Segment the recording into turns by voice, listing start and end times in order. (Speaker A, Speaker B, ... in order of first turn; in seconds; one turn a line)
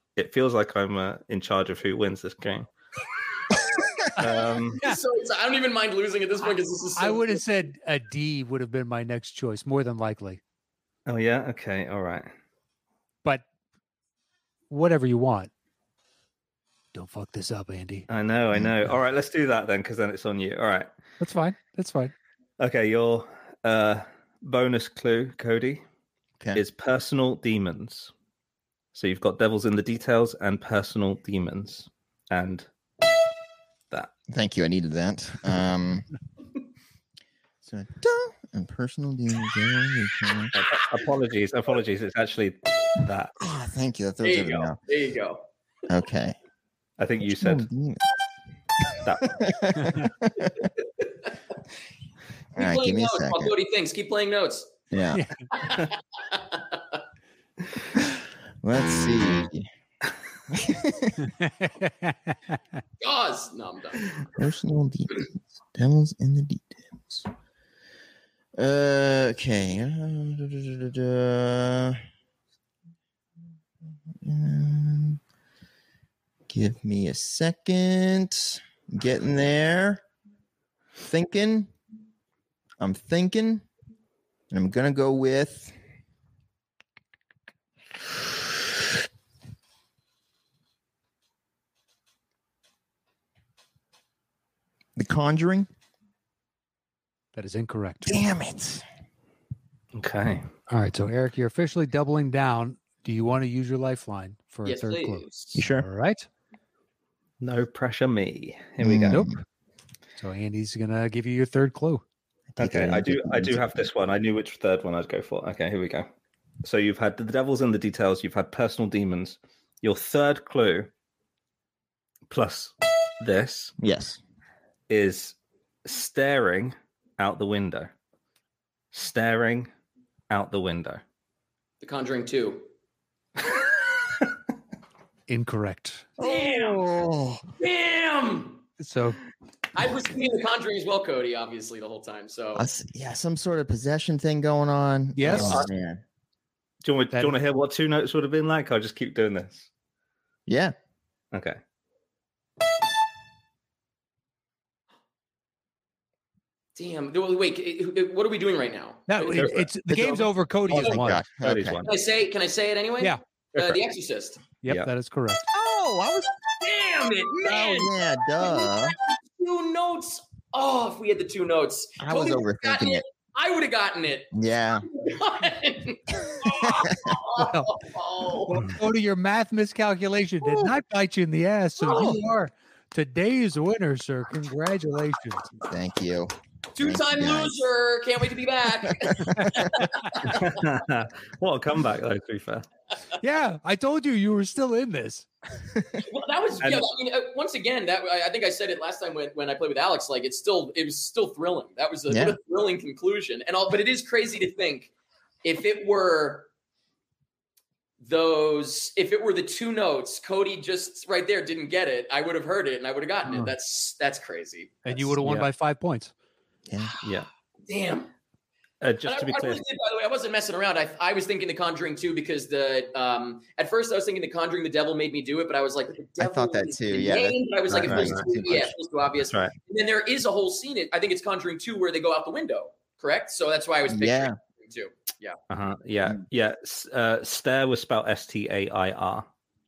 Speaker A: 0.1-2.7
Speaker A: 4.2-4.8
Speaker B: 4.2-5.0
Speaker C: 4.8-7.4
Speaker B: 6.9-10.4
Speaker A: 11.1-12.3
Speaker B: 14.7-15.5
Speaker B: 16.9-18.1
Speaker A: 18.1-20.9
Speaker B: 21.2-22.1
Speaker A: 22.6-25.8
Speaker A: 26.5-28.1
Speaker A: 28.9-32.7
Speaker D: 34.3-36.1
Speaker D: 37.6-40.5
Speaker A: 40.5-43.3
Speaker D: 43.4-44.8
Speaker C: 44.2-45.4
Speaker D: 45.9-46.3
Speaker A: 47.0-47.6
Speaker D: 47.4-48.0
Speaker A: 49.0-49.4
Speaker D: 49.2-50.5
Speaker C: 50.4-51.3
Speaker D: 52.5-53.5
Speaker C: 52.5-54.7
Speaker D: 54.9-55.2
Speaker C: 55.5-56.8
Speaker D: 58.6-59.7
Speaker D: 60.5-61.3
Speaker B: 61.2-62.3
Speaker C: 63.0-64.2
Speaker D: 64.3-67.3
Speaker D: 68.5-72.0
Speaker D: 74.2-75.2
Speaker D: 76.5-80.0
Speaker D: 81.0-81.7
Speaker D: 82.8-83.7
Speaker D: 84.5-85.7
Speaker D: 95.0-95.7
Speaker B: 97.3-98.2
Speaker D: 98.0-98.8
Speaker A: 99.9-100.5
Speaker B: 100.7-106.3
Speaker C: 104.6-105.6
Speaker D: 105.5-105.9
Speaker A: 107.4-109.2
Speaker D: 108.8-109.3
Speaker B: 109.1-109.4
Speaker B: 110.2-112.0
Speaker D: 112.5-113.7
Speaker A: 112.6-116.1
Speaker A: 116.6-120.9
Speaker A: 122.3-123.7
Speaker D: 123.8-124.2
Speaker A: 124.9-127.9
Speaker A: 128.9-129.7
Speaker A: 130.3-131.0
Speaker C: 131.8-132.7
Speaker B: 135.3-136.1
Speaker D: 136.2-137.4
Speaker C: 136.2-137.0
Speaker C: 137.6-138.6
Speaker B: 138.8-139.2
Speaker C: 139.7-142.7
Speaker D: 142.5-146.0
Speaker B: 145.1-145.7
Speaker A: 145.2-145.7
Speaker A: 146.8-149.7
Speaker D: 150.5-150.7
Speaker A: 151.3-151.6
Speaker C: 156.8-159.6
Speaker B: 159.1-161.2
Speaker A: 159.3-160.3
Speaker D: 160.7-161.8
Speaker A: 161.4-162.0
Speaker C: 161.8-164.4
Speaker B: 164.6-165.5
Speaker D: 165.5-166.3
Speaker C: 166.4-174.3
Speaker D: 167.3-168.9
Speaker D: 172.0-173.0
Speaker D: 174.3-174.9
Speaker C: 174.9-178.6
Speaker D: 176.4-177.1
Speaker B: 177.3-177.7
Speaker B: 178.5-185.4
Speaker D: 180.4-180.7
Speaker C: 181.8-182.2
Speaker D: 181.9-182.2
Speaker D: 185.6-187.6
Speaker C: 186.7-190.4
Speaker D: 188.9-189.6
Speaker B: 189.3-190.3
Speaker A: 190.2-192.6
Speaker B: 193.2-195.3
Speaker C: 196.0-206.5
Speaker D: 202.1-202.4
Speaker C: 208.0-215.1
Speaker B: 214.8-216.1
Speaker D: 216.7-216.9
Speaker C: 217.7-218.1
Speaker A: 218.8-219.6
Speaker C: 219.1-235.4
Speaker D: 226.2-228.7
Speaker A: 227.7-228.3
Speaker A: 229.2-229.5
Speaker D: 233.9-234.3
Speaker A: 235.5-239.3